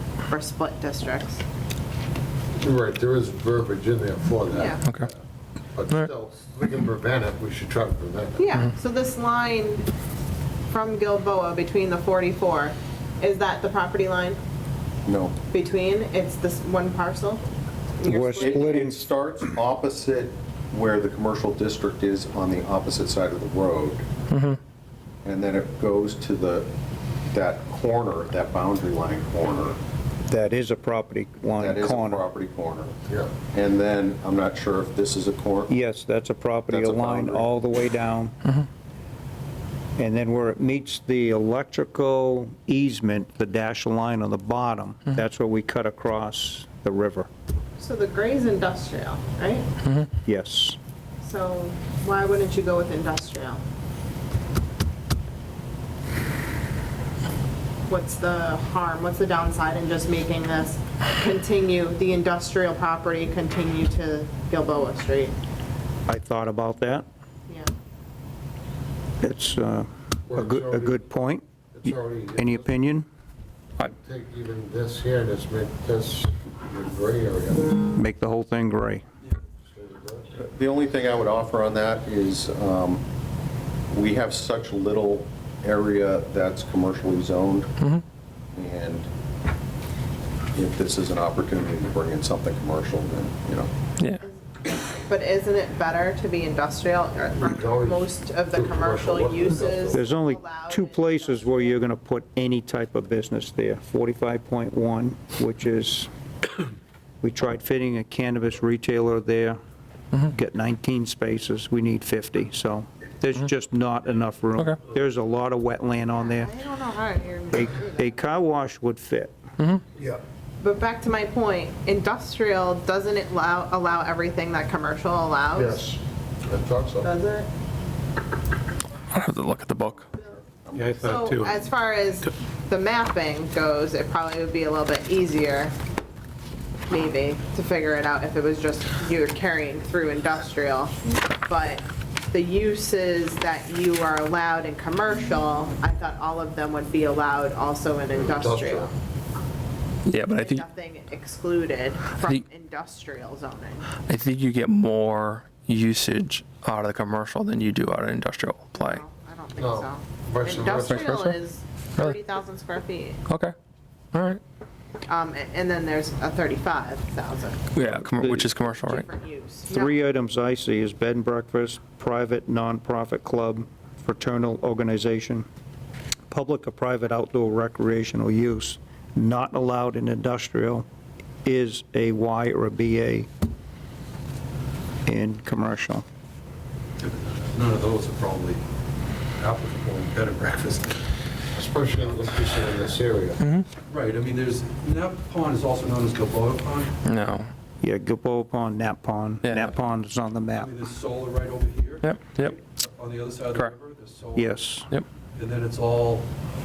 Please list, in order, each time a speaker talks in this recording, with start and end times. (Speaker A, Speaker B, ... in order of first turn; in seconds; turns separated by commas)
Speaker A: 0.3-1.4, Speaker B: 2.6-5.1, Speaker A: 4.5-4.8, Speaker B: 5.7-8.4, Speaker A: 8.4-9.9, Speaker A: 10.7-14.4, Speaker C: 15.0-15.4, Speaker A: 15.5-17.4, Speaker A: 18.0-18.8, Speaker D: 18.0-19.1, Speaker C: 18.4-24.1, Speaker E: 24.3-24.6, Speaker C: 25.2-26.7, Speaker C: 27.3-29.8, Speaker D: 30.3-32.2, Speaker C: 31.6-35.7, Speaker B: 33.0-33.4, Speaker D: 35.7-38.3, Speaker C: 36.7-37.5, Speaker D: 40.0-47.3, Speaker A: 47.8-49.7, Speaker E: 49.8-50.1, Speaker D: 50.2-50.8, Speaker A: 51.2-53.6, Speaker A: 57.9-65.3, Speaker D: 66.1-67.0, Speaker D: 69.2-73.1, Speaker B: 70.3-71.0, Speaker B: 71.7-72.7, Speaker B: 73.9-77.7, Speaker D: 77.9-79.0, Speaker B: 79.7-80.3, Speaker C: 80.4-83.0, Speaker C: 83.9-87.7, Speaker C: 88.5-89.1, Speaker C: 90.5-93.7, Speaker A: 94.2-101.8, Speaker B: 97.4-100.0, Speaker D: 99.9-106.1, Speaker D: 107.2-109.6, Speaker D: 110.3-116.5, Speaker A: 116.2-118.1, Speaker D: 117.5-119.4, Speaker B: 120.0-120.2, Speaker A: 120.6-125.8, Speaker B: 125.5-127.1, Speaker A: 127.0-127.5, Speaker E: 129.1-130.1, Speaker C: 130.7-131.3, Speaker F: 130.7-131.5, Speaker A: 131.0-135.7, Speaker A: 136.9-148.9, Speaker B: 148.1-148.9, Speaker E: 150.1-150.6, Speaker A: 150.2-153.9, Speaker E: 154.1-159.0, Speaker A: 158.8-163.2, Speaker B: 159.6-161.0, Speaker E: 160.9-161.4, Speaker E: 163.3-163.5, Speaker E: 164.1-164.4, Speaker A: 165.1-167.7, Speaker E: 167.7-169.1, Speaker D: 167.8-168.5, Speaker A: 168.6-169.9, Speaker D: 169.7-175.5, Speaker D: 176.3-180.8, Speaker D: 181.4-183.3, Speaker D: 185.1-186.1, Speaker F: 187.0-188.6, Speaker F: 189.4-191.1, Speaker B: 191.6-193.4, Speaker E: 193.4-193.7, Speaker F: 193.9-196.9, Speaker E: 197.1-197.5, Speaker D: 197.8-200.8, Speaker E: 199.4-199.7, Speaker F: 200.5-204.7, Speaker E: 202.0-202.6, Speaker D: 204.3-204.8, Speaker F: 205.3-206.2